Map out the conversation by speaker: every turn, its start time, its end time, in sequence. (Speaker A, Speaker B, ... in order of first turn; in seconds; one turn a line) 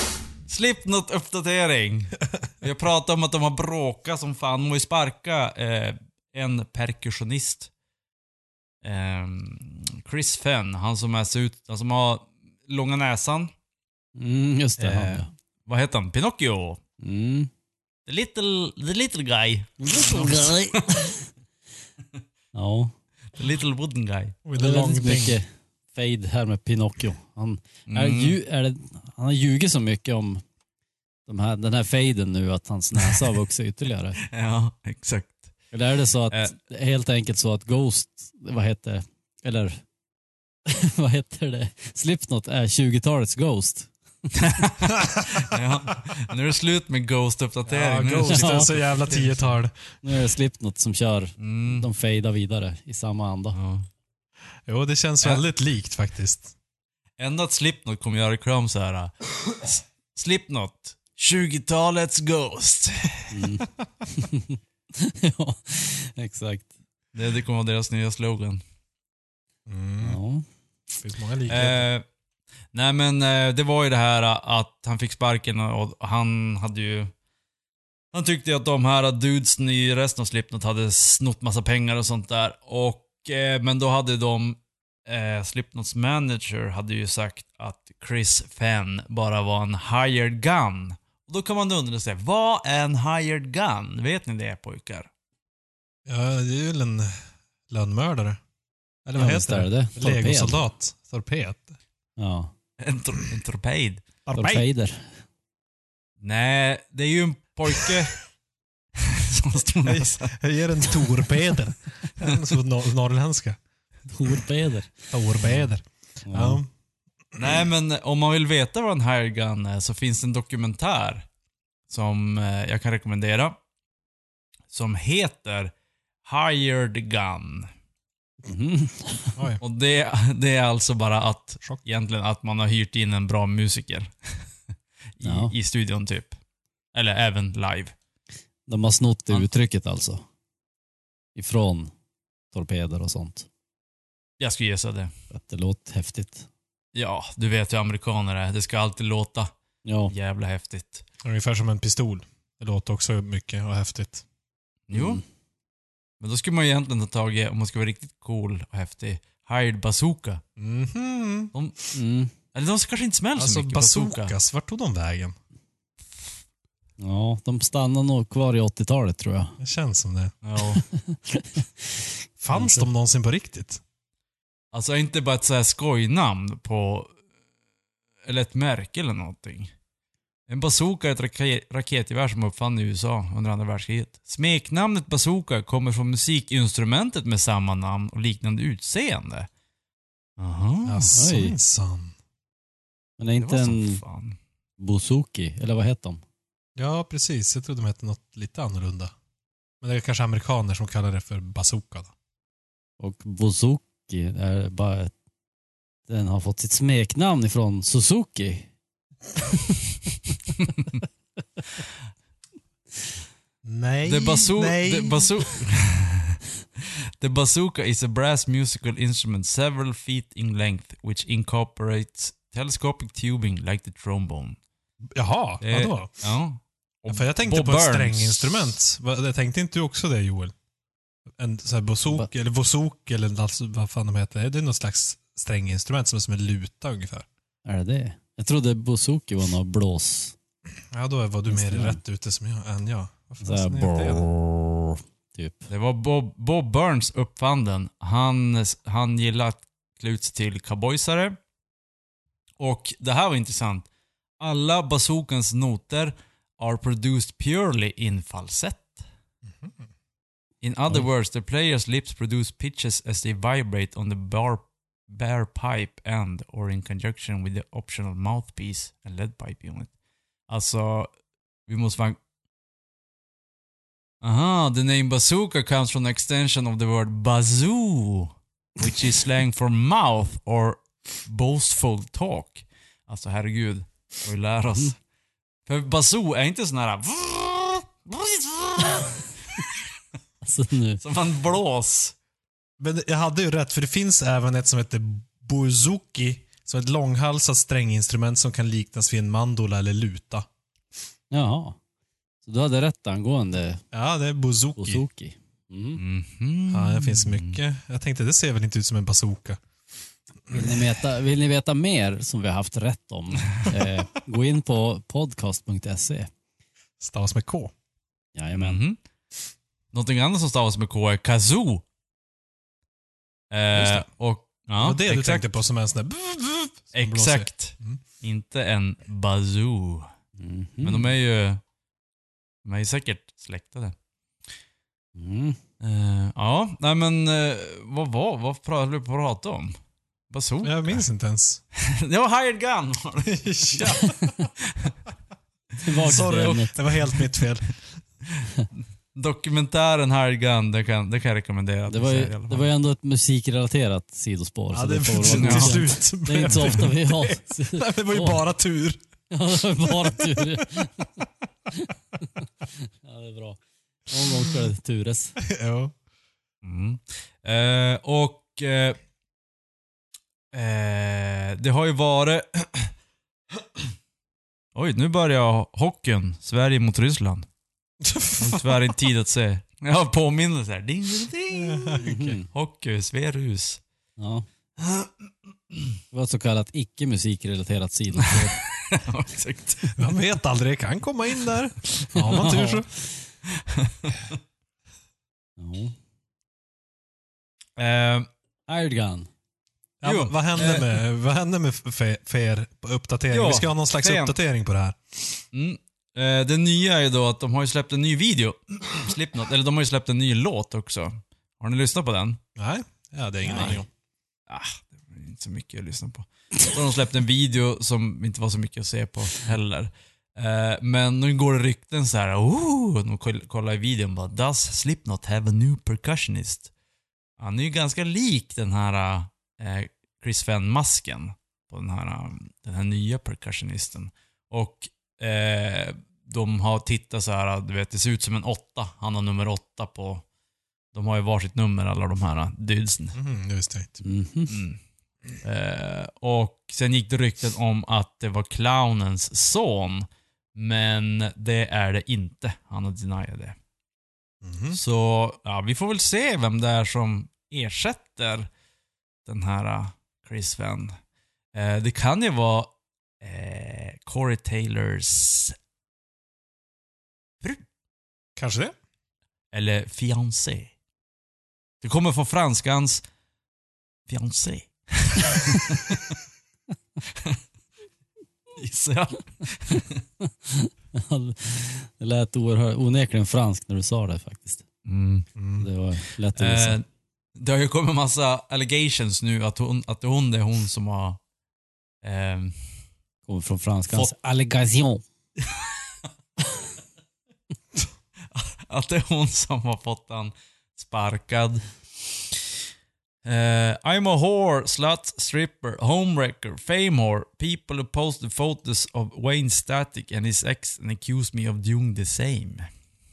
Speaker A: 0.5-7.7
Speaker A: 8.8-13.5
Speaker B: 14.2-15.3
Speaker A: 14.8-16.8
Speaker B: 17.0-17.5
Speaker A: 18.1-20.4
Speaker B: 19.8-21.3
Speaker B: 22.5-22.9
Speaker A: 23.4-24.4
Speaker C: 24.4-25.4
Speaker B: 24.6-30.4
Speaker A: 27.9-28.4
Speaker B: 31.2-34.2
Speaker A: 34.3-35.5
Speaker B: 35.7-39.8
Speaker B: 40.7-44.6
Speaker A: 44.4-49.6
Speaker C: 47.7-50.0
Speaker B: 48.3-48.7
Speaker B: 50.0-53.6
Speaker A: 51.4-51.9
Speaker A: 53.5-53.9
Speaker C: 54.7-56.5
Speaker A: 57.2-63.4
Speaker B: 63.3-66.7
Speaker A: 67.1-68.6
Speaker C: 69.7-70.2
Speaker B: 70.0-70.5
Speaker C: 71.0-71.9
Speaker A: 71.5-72.0
Speaker A: 72.7-77.1
Speaker A: 78.1-95.1
Speaker C: 96.1-98.4
Speaker C: 99.0-101.8
Speaker B: 99.2-100.6
Speaker B: 102.2-102.5
Speaker A: 102.8-104.0
Speaker C: 104.2-104.7
Speaker B: 104.3-105.2
Speaker A: 106.2-108.2
Speaker A: 109.1-110.4
Speaker C: 109.8-113.6
Speaker A: 110.9-111.3
Speaker B: 114.1-115.1
Speaker C: 115.1-116.7
Speaker B: 116.2-116.6
Speaker A: 117.4-121.3
Speaker A: 121.9-123.5
Speaker A: 124.7-125.7
Speaker A: 126.2-127.7
Speaker B: 128.5-129.4
Speaker C: 129.4-129.6
Speaker A: 129.6-134.5
Speaker A: 135.2-136.4
Speaker B: 135.2-135.5
Speaker A: 136.9-137.9
Speaker B: 138.7-140.2
Speaker B: 141.4-141.9
Speaker B: 142.5-143.5
Speaker A: 144.4-145.1
Speaker B: 145.3-146.5
Speaker A: 146.9-149.5
Speaker B: 149.8-150.1
Speaker A: 150.1-151.0
Speaker C: 151.2-154.2
Speaker A: 154.9-155.2
Speaker B: 154.9-155.2
Speaker A: 156.2-160.4
Speaker C: 160.6-161.5
Speaker A: 161.5-161.9
Speaker B: 161.9-162.3
Speaker A: 162.5-164.3
Speaker C: 163.4-165.3
Speaker B: 167.0-169.6
Speaker C: 169.6-170.3
Speaker A: 170.4-170.8
Speaker B: 170.8-172.9
Speaker C: 172.4-173.8
Speaker A: 174.7-177.2
Speaker A: 178.2-179.7
Speaker A: 180.5-189.5
Speaker A: 190.4-191.1
Speaker C: 190.9-192.2
Speaker B: 191.2-191.6
Speaker B: 193.2-194.0
Speaker A: 193.4-194.4
Speaker B: 194.8-196.2
Speaker C: 196.8-199.1
Speaker C: 199.8-202.1
Speaker B: 203.0-205.1
Speaker B: 206.1-208.7
Speaker C: 213.6-215.3
Speaker A: 214.0-224.6
Speaker C: 225.2-226.1
Speaker A: 225.6-228.7
Speaker C: 227.1-230.5
Speaker C: 231.4-237.2
Speaker B: 237.7-240.4
Speaker C: 240.9-244.2
Speaker B: 241.5-242.0
Speaker B: 243.4-245.7
Speaker A: 245.7-251.4
Speaker A: 252.6-253.9
Speaker A: 254.4-259.0
Speaker A: 260.6-269.9
Speaker A: 270.5-271.1
Speaker A: 271.7-272.2
Speaker A: 274.2-285.0
Speaker A: 285.7-289.7
Speaker B: 290.4-291.0
Speaker A: 291.0-292.1
Speaker C: 292.8-300.5
Speaker B: 301.3-301.8
Speaker B: 302.4-303.8
Speaker C: 303.9-305.0
Speaker B: 304.8-306.0
Speaker A: 306.0-307.6
Speaker C: 306.7-309.6
Speaker B: 310.5-316.3
Speaker C: 317.0-317.7
Speaker B: 318.4-318.8
Speaker A: 318.6-319.0
Speaker A: 319.9-321.8
Speaker A: 323.5-325.6
Speaker C: 323.7-324.0
Speaker C: 324.8-328.0
Speaker A: 326.9-330.1
Speaker B: 330.4-331.1
Speaker A: 330.8-331.6
Speaker A: 332.6-333.9
Speaker B: 335.2-335.6
Speaker A: 335.8-339.8
Speaker A: 340.3-341.0
Speaker C: 340.6-341.6
Speaker A: 341.8-343.8
Speaker C: 343.3-344.4
Speaker B: 345.8-346.8
Speaker A: 346.0-347.2
Speaker C: 346.0-347.7
Speaker A: 349.1-352.7
Speaker B: 351.9-358.4
Speaker C: 354.7-359.0
Speaker A: 355.3-355.8
Speaker B: 359.3-361.9
Speaker C: 359.9-360.5
Speaker B: 363.0-365.4
Speaker C: 365.4-365.9
Speaker A: 366.6-369.0
Speaker A: 370.5-372.9
Speaker A: 374.8-377.5
Speaker C: 378.0-378.7
Speaker A: 378.4-383.8
Speaker C: 381.5-382.0
Speaker B: 382.0-382.4
Speaker B: 384.2-384.5
Speaker A: 384.8-385.1
Speaker B: 386.1-388.6
Speaker A: 388.2-390.0
Speaker C: 390.0-392.9
Speaker B: 392.3-392.8
Speaker A: 393.5-394.2
Speaker B: 395.6-396.0
Speaker A: 397.8-398.3
Speaker B: 398.7-399.3
Speaker C: 400.0-405.0
Speaker A: 400.0-401.0
Speaker A: 403.3-404.4
Speaker A: 405.5-412.4
Speaker C: 412.6-413.9
Speaker A: 414.5-426.7
Speaker A: 427.4-440.2
Speaker A: 440.9-443.2
Speaker C: 443.1-444.0
Speaker B: 444.0-444.6
Speaker A: 444.5-444.8
Speaker A: 445.4-453.6
Speaker C: 454.4-454.8
Speaker A: 454.7-458.5
Speaker A: 459.2-461.0
Speaker A: 461.5-462.7
Speaker A: 463.2-465.6
Speaker C: 468.4-468.8
Speaker A: 469.5-470.7
Speaker A: 471.8-473.0
Speaker A: 474.1-476.0
Speaker A: 478.6-480.0
Speaker B: 480.2-484.6
Speaker A: 484.9-485.3
Speaker C: 485.4-485.7
Speaker B: 485.6-486.8
Speaker A: 486.4-486.9
Speaker A: 487.4-491.2
Speaker A: 492.0-492.6
Speaker B: 493.3-495.0
Speaker A: 498.3-501.7
Speaker A: 503.2-512.7